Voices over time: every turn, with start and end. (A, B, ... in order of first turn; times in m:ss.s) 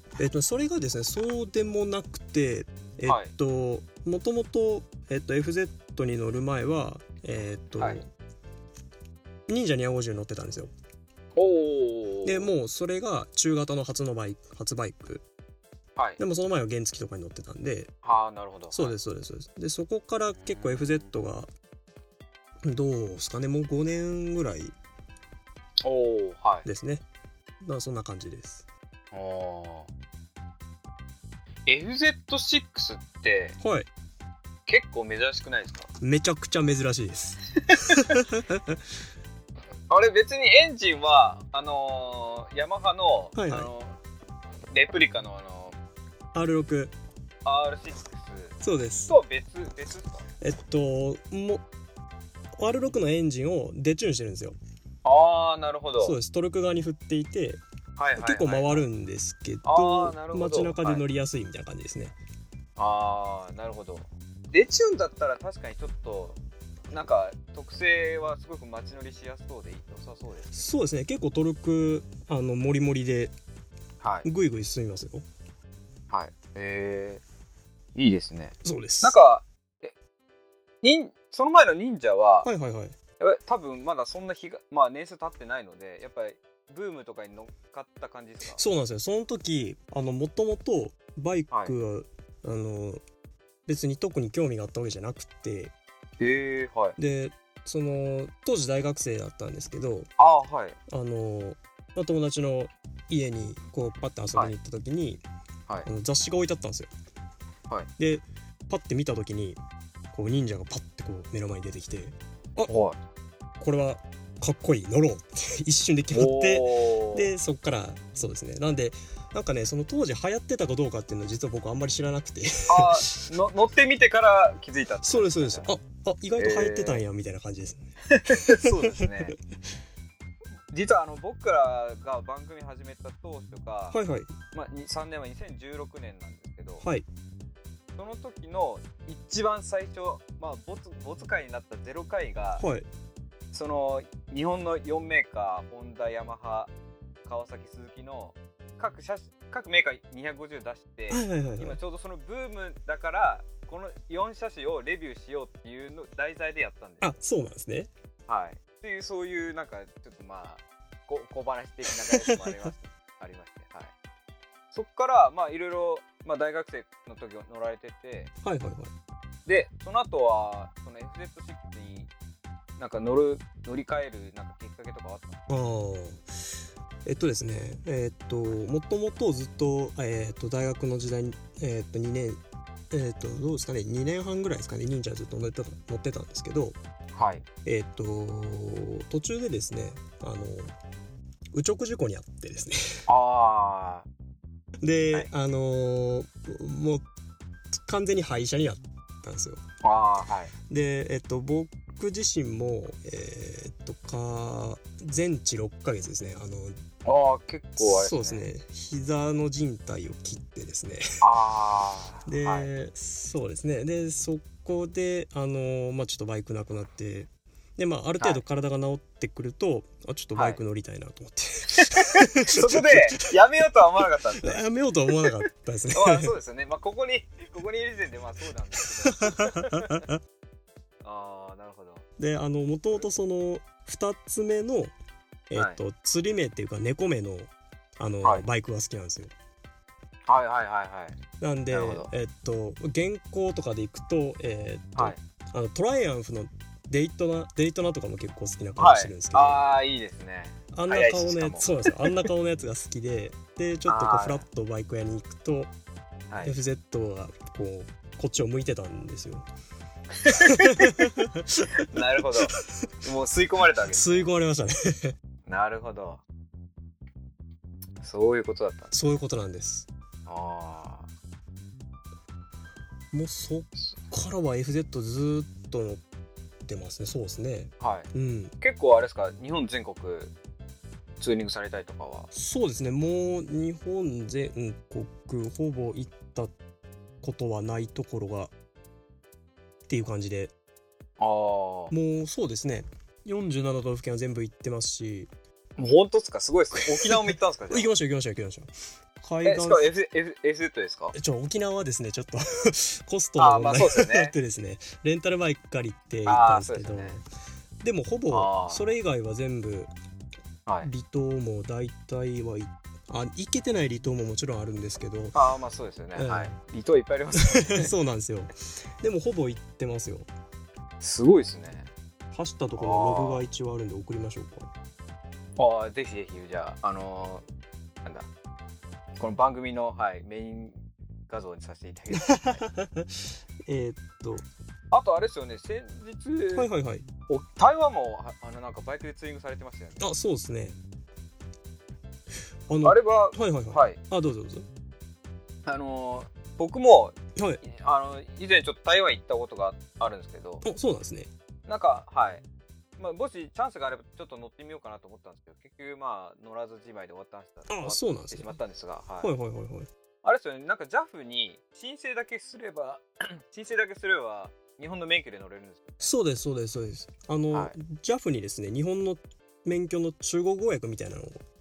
0:00.2-0:08.1 A
0:03.0-0:03.3 B
0:07.8-0:08.0 B
0:09.5-0:10.7 A
0:11.4-0:12.5 B
0:12.2-0:15.2 A
0:16.2-0:17.9 A
0:18.0-0:18.9 B
0:18.7-0:21.5 A
0:20.3-0:21.1 B
0:22.6-0:24.8 A
0:25.8-0:26.7 B
0:26.6-0:27.0 A
0:27.6-0:28.6 A
0:29.1-0:29.9 B
0:31.6-0:33.6 B
0:33.6-0:33.9 A
0:34.7-0:35.9 B
0:36.0-0:38.8 A
0:37.7-0:38.2 B
0:39.9-0:44.0 B
0:43.3-0:43.7 A
0:44.7-0:45.8 B
0:46.3-0:46.9 A
0:47.4-0:50.2 B
0:48.6-0:49.1 A
0:50.4-0:51.6 A
0:52.6-0:54.6 A
0:55.0-0:56.2 B
0:56.0-0:57.6 A
0:58.0-0:58.8 B
0:58.2-1:02.1 A
0:59.6-1:01.0 B
1:02.8-1:06.4 B
1:06.9-1:10.5 B
1:10.5-1:13.3 A
1:14.0-1:14.3 B
1:14.2-1:15.2 A
1:16.1-1:17.2 B
1:17.9-1:19.9 B
1:18.6-1:19.1 A
1:20.8-1:22.5 B
1:22.4-1:22.9 A
1:23.2-1:28.6 B
1:28.6-1:33.0 A
1:33.6-1:35.7 A
1:36.2-1:37.0 B
1:37.0-1:40.1 A
1:40.2-1:40.8 B
1:40.9-1:45.2 A
1:45.8-1:46.9 A
1:48.0-1:49.6 A
1:50.1-1:52.7 A
1:52.6-1:53.0 B
1:53.6-2:03.2 A
1:56.1-1:57.3 B
2:02.7-2:05.7 B
2:05.0-2:09.3 A
2:06.4-2:07.0 B
2:08.1-2:09.3 B
2:10.7-2:14.0 B
2:13.9-2:14.3 A
2:14.5-2:16.8 B
2:18.0-2:22.6 B
2:22.6-2:22.8 A
2:23.5-2:26.7 B
2:27.2-2:37.2 B
2:31.1-2:31.8 A
2:37.0-2:37.9 A
2:38.3-2:43.9 B
2:44.7-2:48.3 B
2:48.4-2:48.9 A
2:49.4-2:52.1 B
2:52.8-2:55.4 B
2:55.5-2:56.3 A
2:57.0-3:02.4 A
3:02.9-3:06.8 A
3:07.1-3:07.4 B
3:07.6-3:10.7 A
3:11.5-3:13.0 A
3:13.1-3:14.1 B
3:14.8-3:17.0 A
3:17.7-3:19.6 A
3:19.8-3:20.5 B
3:20.7-3:26.8 A
3:27.0-3:28.4 B
3:27.8-3:31.2 A
3:31.2-3:32.7 B
3:32.2-3:43.0 A
3:41.7-3:50.0 B
3:44.4-3:46.3 A
3:49.1-3:50.2 A
3:51.0-3:52.0 B
3:52.2-3:54.9 A
3:55.5-3:59.3 A
4:00.3-4:01.2 B
4:01.4-4:09.6 A
4:01.7-4:02.1 B
4:04.9-4:05.2 B
4:08.8-4:12.3 B
4:10.7-4:15.7 A
4:13.8-4:14.4 B
4:16.4-4:19.4 A
4:20.2-4:21.1 B
4:20.3-4:21.8 A
4:21.8-4:24.3 B
4:23.9-4:25.1 A
4:25.5-4:26.2 B
4:28.0-4:28.9 B
4:28.9-4:29.9 A
4:30.2-4:31.1 B
4:33.1-4:36.0 A
4:36.6-4:38.5 A
4:37.8-4:40.3 B
4:41.2-4:42.3 B
4:42.3-4:46.5 A
4:47.2-4:48.5 A
4:49.9-4:50.5 A
4:51.2-4:51.9 B
4:51.9-4:55.3 A
4:55.8-4:57.9 B
4:57.0-4:59.9 A
4:59.4-5:01.1 B
5:01.1-5:07.2 A
5:03.4-5:04.3 B
5:06.2-5:07.2 B
5:07.8-5:09.9 A
5:08.3-5:08.9 B
5:10.8-5:15.4 A
5:15.3-5:17.9 B
5:16.2-5:16.6 A
5:17.4-5:20.3 A
5:21.0-5:21.9 B
5:22.3-5:24.7 A
5:22.8-5:23.4 B
5:25.6-5:27.4 B
5:29.2-5:32.6 B
5:32.1-5:34.4 A
5:34.9-5:36.7 B
5:36.5-5:37.1 A
5:37.3-5:40.0 B
5:40.0-5:40.8 A
5:42.7-5:44.6 A
5:42.8-5:44.0 B
5:45.6-5:50.6 B
5:50.6-5:51.3 A
5:51.7-5:52.4 B
5:53.0-5:59.3 B
5:57.7-5:58.5 A
5:59.2-5:59.9 A
6:00.2-6:06.1 B
6:06.0-6:11.4 A